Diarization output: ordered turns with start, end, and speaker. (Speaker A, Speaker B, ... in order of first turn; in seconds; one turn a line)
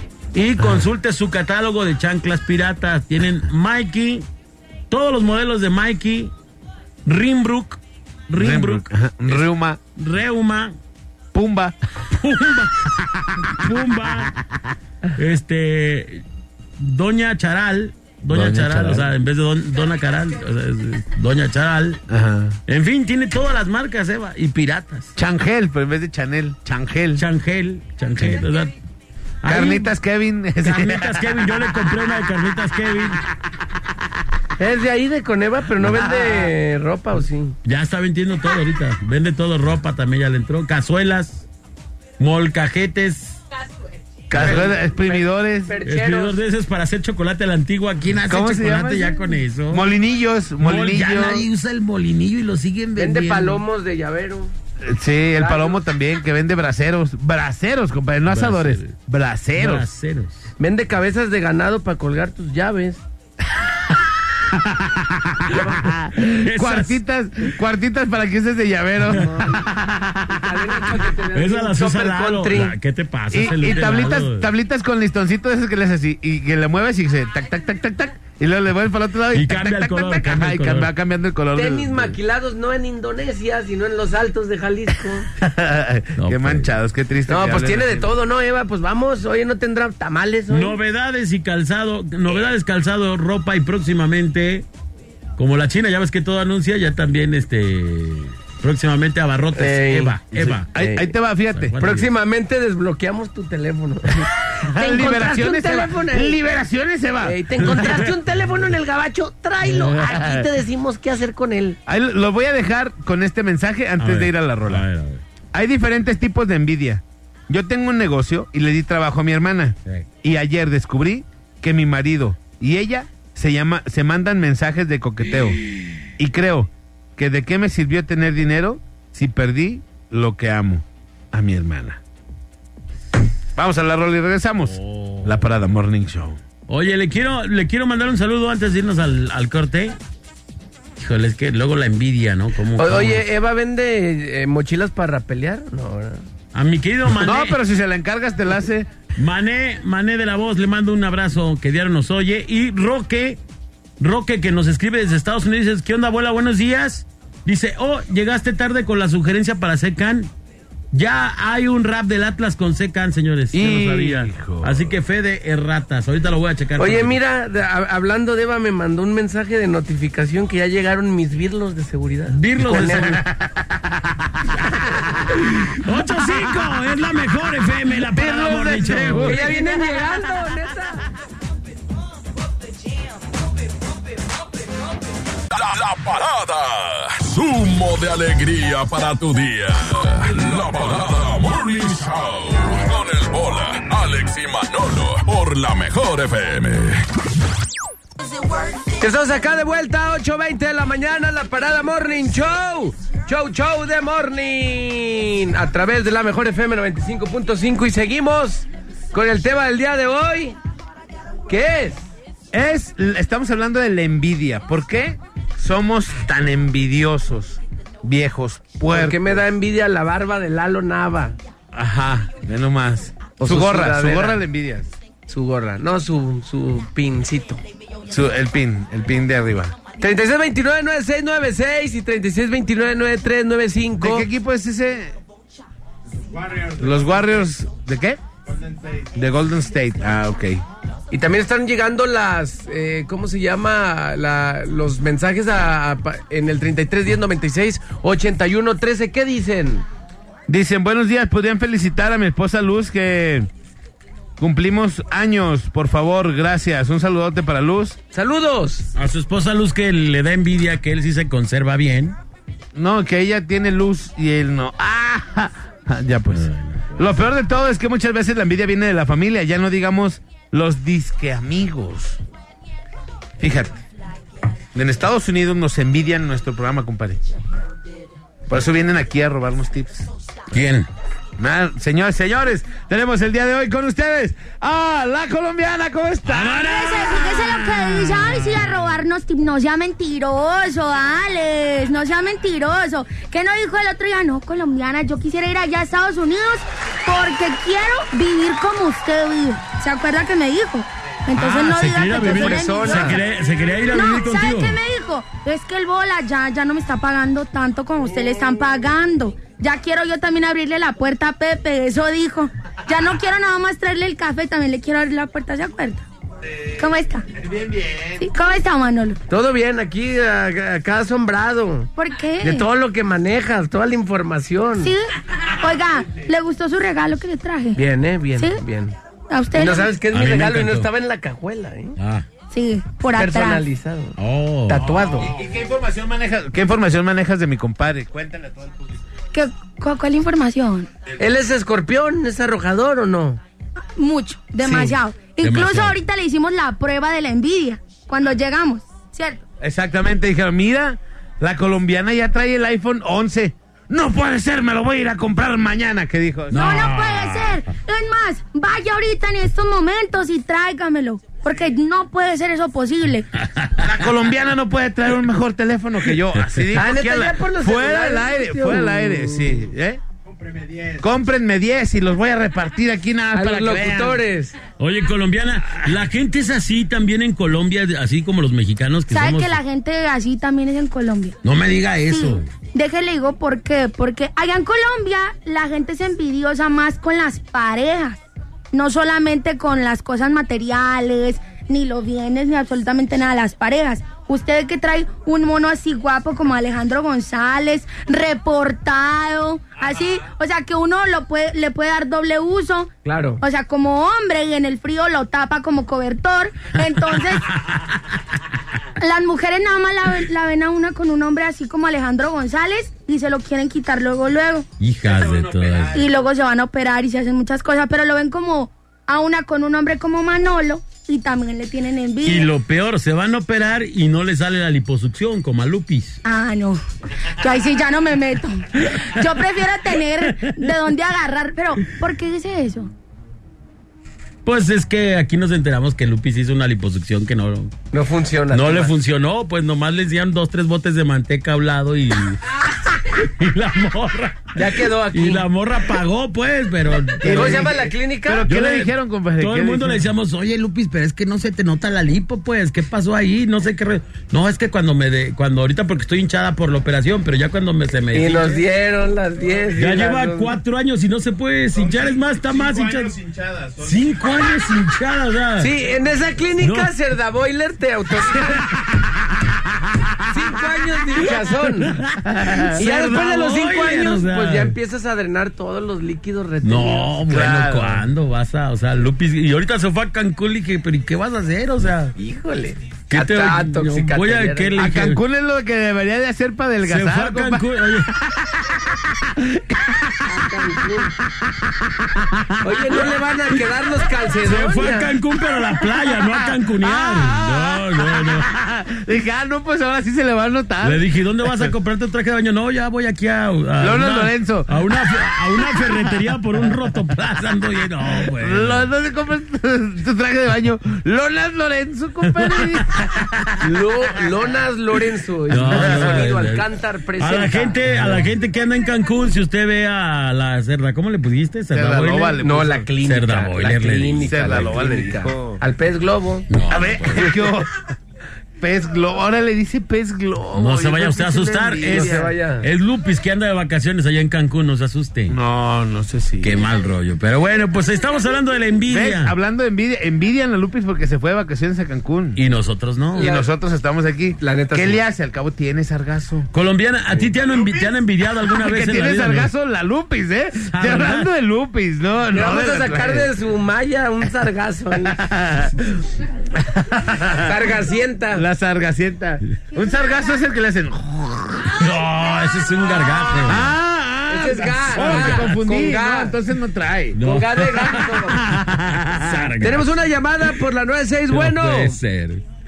Speaker A: 0.3-4.2
Speaker B: 0.6-0.9
Speaker A: 4.9-6.3
Speaker A: 7.1-10.8
Speaker B: 8.3-9.8
Speaker B: 11.3-11.8
Speaker A: 12.1-14.4
Speaker A: 15.2-16.2
Speaker A: 16.8-22.0
Speaker B: 18.3-19.1
Speaker B: 22.1-22.6
Speaker A: 22.7-25.2
Speaker B: 25.2-27.2
Speaker A: 27.2-28.7
Speaker B: 28.2-28.4
Speaker A: 29.4-29.9
Speaker B: 29.4-31.5
Speaker A: 30.6-33.2
Speaker C: 34.6-37.5
Speaker B: 35.8-36.5
Speaker A: 37.6-41.5
Speaker A: 42.2-43.4
Speaker B: 44.3-45.7
Speaker A: 44.3-44.7
Speaker C: 44.4-46.4
Speaker A: 45.8-49.9
Speaker B: 48.2-51.5
Speaker A: 50.6-53.6
Speaker C: 53.0-54.5
Speaker B: 54.8-59.9
Speaker C: 55.4-55.8
Speaker A: 58.3-59.0
Speaker A: 59.6-60.5
Speaker C: 60.6-63.0
Speaker B: 64.7-70.4
Speaker A: 65.5-65.8
Speaker A: 66.3-67.0
Speaker C: 69.1-69.6
Speaker C: 70.4-72.8
Speaker A: 71.3-74.5
Speaker B: 73.3-82.2
Speaker A: 79.3-80.9
Speaker C: 81.5-85.3
Speaker B: 85.4-88.1
Speaker A: 86.2-86.7
Speaker C: 87.3-90.8
Speaker A: 90.5-94.7
Speaker A: 95.4-100.7
Speaker C: 99.6-100.2
Speaker B: 100.3-101.8
Speaker C: 100.8-101.1
Speaker A: 101.5-102.1
Speaker C: 101.8-106.4
Speaker B: 104.8-108.1
Speaker C: 107.2-111.8
Speaker A: 107.6-108.1
Speaker B: 110.0-110.5
Speaker B: 111.9-114.9
Speaker A: 114.0-115.2
Speaker B: 115.5-125.6
Speaker B: 126.2-132.0
Speaker B: 133.6-136.4
Speaker A: 134.7-135.5
Speaker A: 136.7-139.9
Speaker A: 141.0-143.2
Speaker C: 142.8-146.2
Speaker A: 146.5-147.6
Speaker B: 147.1-148.9
Speaker A: 149.2-153.4
Speaker A: 154.0-160.3
Speaker A: 160.9-167.2
Speaker B: 163.5-164.9
Speaker C: 166.8-173.2
Speaker A: 172.3-173.2
Speaker B: 173.0-174.3
Speaker A: 175.3-179.5
Speaker B: 178.1-179.7
Speaker C: 179.1-181.0
Speaker D: 185.6-197.0
Speaker C: 199.0-210.6
Speaker C: 211.5-212.1
Speaker B: 212.5-219.3
Speaker C: 218.9-221.3
Speaker B: 221.7-224.9
Speaker C: 223.4-224.4
Speaker C: 225.3-227.6
Speaker B: 228.1-229.8
Speaker C: 229.9-234.3
Speaker B: 234.0-235.2
Speaker B: 236.6-238.2
Speaker B: 239.1-240.6
Speaker C: 241.1-249.8
Speaker B: 250.5-253.5
Speaker B: 254.4-258.0
Speaker C: 258.1-258.9
Speaker A: 258.9-262.2
Speaker B: 262.8-272.2
Speaker A: 266.3-267.2
Speaker B: 273.4-273.8
Speaker B: 274.7-277.2
Speaker B: 278.5-280.1
Speaker A: 280.5-280.9
Speaker B: 281.4-286.8
Speaker A: 286.3-288.8
Speaker E: 286.6-303.2
Speaker A: 301.4-304.8
Speaker C: 302.1-303.2
Speaker E: 303.9-316.1
Speaker B: 316.5-316.8
Speaker E: 316.8-317.3
Speaker B: 317.3-318.2
Speaker E: 318.2-319.2
Speaker C: 319.3-321.9
Speaker E: 322.0-322.7
Speaker C: 322.4-324.9
Speaker E: 324.8-327.8
Speaker C: 327.8-328.9
Speaker E: 328.4-328.6
Speaker E: 329.3-329.9
Speaker C: 329.5-332.0
Speaker A: 330.1-330.9
Speaker A: 332.0-332.3
Speaker E: 332.5-333.6
Speaker C: 333.1-334.2
Speaker A: 334.2-335.2
Speaker C: 334.7-335.3
Speaker B: 335.2-338.9
Speaker E: 339.3-340.9
Speaker C: 341.2-343.4
Speaker E: 344.0-349.4
Speaker C: 344.6-345.0
Speaker A: 345.4-346.0
Speaker B: 349.6-356.6
Speaker A: 356.5-357.6
Speaker E: 356.5-363.3
Speaker A: 363.4-363.9
Speaker B: 363.8-370.0
Speaker A: 366.4-366.7
Speaker C: 366.7-369.6
Speaker B: 370.8-374.2
Speaker C: 373.3-374.6
Speaker A: 374.8-379.6
Speaker E: 379.1-381.4
Speaker A: 381.4-382.5
Speaker E: 382.1-388.2
Speaker E: 388.7-407.5
Speaker C: 403.0-403.4
Speaker E: 409.0-414.7
Speaker A: 414.8-416.1
Speaker B: 415.1-416.0
Speaker E: 415.9-422.5
Speaker A: 422.3-426.2
Speaker E: 426.2-432.9
Speaker A: 434.4-437.8
Speaker C: 437.9-438.9
Speaker A: 438.5-447.7
Speaker C: 444.6-445.5
Speaker B: 447.2-450.1
Speaker C: 447.3-448.5
Speaker A: 448.5-458.6
Speaker C: 458.1-460.6
Speaker A: 459.8-463.2
Speaker B: 461.8-464.2
Speaker A: 463.8-465.7
Speaker C: 465.6-468.7
Speaker A: 466.6-466.9
Speaker C: 470.3-472.0
Speaker A: 471.2-474.8
Speaker B: 472.2-472.8
Speaker C: 472.8-477.2
Speaker A: 476.6-482.1
Speaker B: 477.3-478.1
Speaker C: 482.2-484.8
Speaker A: 483.1-485.2
Speaker B: 484.8-490.4
Speaker A: 486.9-488.1
Speaker C: 490.3-491.1
Speaker B: 491.3-493.0
Speaker C: 492.6-495.1
Speaker A: 494.4-498.5
Speaker B: 496.8-501.7
Speaker A: 500.8-508.9
Speaker B: 503.8-506.2
Speaker B: 508.3-513.7
Speaker A: 512.4-512.8
Speaker C: 513.6-518.3
Speaker A: 515.5-516.7
Speaker B: 515.7-516.2
Speaker A: 517.2-522.4
Speaker B: 521.7-522.9
Speaker C: 522.4-526.5
Speaker A: 523.0-524.3
Speaker B: 524.2-525.6
Speaker A: 526.5-527.3
Speaker B: 526.7-527.8
Speaker B: 528.6-532.3
Speaker A: 530.5-535.4
Speaker C: 531.9-532.7
Speaker B: 535.3-536.6
Speaker A: 536.4-539.3
Speaker B: 538.9-542.4
Speaker A: 542.4-543.3
Speaker C: 543.2-543.5
Speaker B: 543.2-546.5
Speaker C: 544.4-545.0
Speaker A: 546.5-549.5
Speaker B: 547.5-547.9
Speaker B: 548.5-553.3
Speaker A: 550.7-551.3
Speaker C: 552.3-555.2
Speaker B: 555.0-556.0
Speaker B: 556.5-557.5
Speaker C: 557.3-558.5
Speaker B: 558.3-561.9
Speaker A: 561.7-563.8
Speaker B: 563.4-567.2
Speaker C: 564.3-566.4
Speaker A: 565.0-565.6
Speaker A: 567.2-569.9
Speaker C: 567.2-568.5
Speaker B: 568.5-569.5
Speaker C: 569.6-572.0
Speaker A: 571.3-572.4